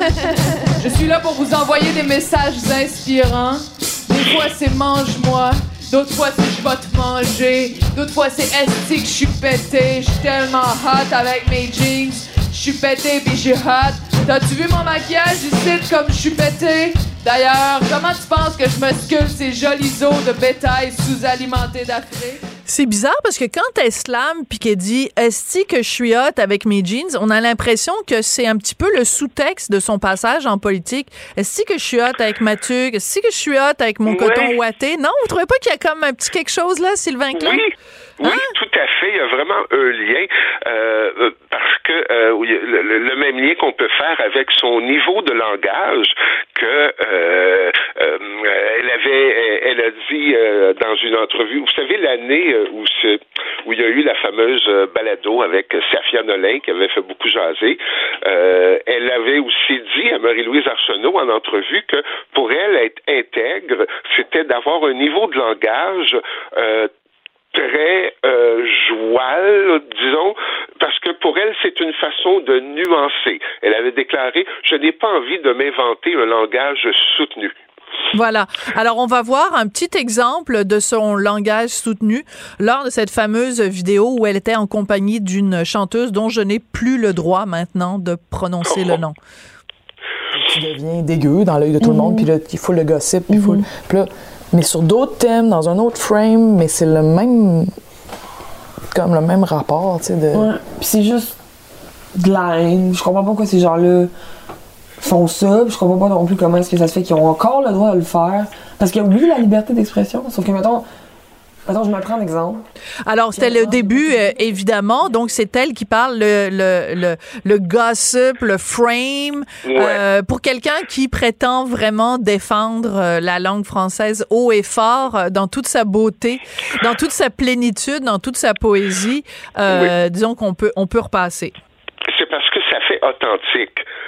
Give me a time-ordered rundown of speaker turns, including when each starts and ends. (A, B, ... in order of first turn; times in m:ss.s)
0:00.8-0:22.4 A
0:22.7-0:37.6 B
0:34.0-0:34.5 C
0:37.3-1:06.9 C
1:07.5-1:17.5 C
1:18.1-1:29.2 B
1:30.4-1:37.7 D
1:31.8-1:32.3 E
1:33.3-1:33.7 E
1:38.9-1:40.5 D
1:40.3-1:41.4 E
1:42.2-1:44.1 E
1:45.0-1:50.8 E
1:51.6-1:52.6 E
1:53.0-2:11.5 B
1:53.3-1:54.1 E
1:59.6-2:00.0 C
2:12.1-2:13.8 C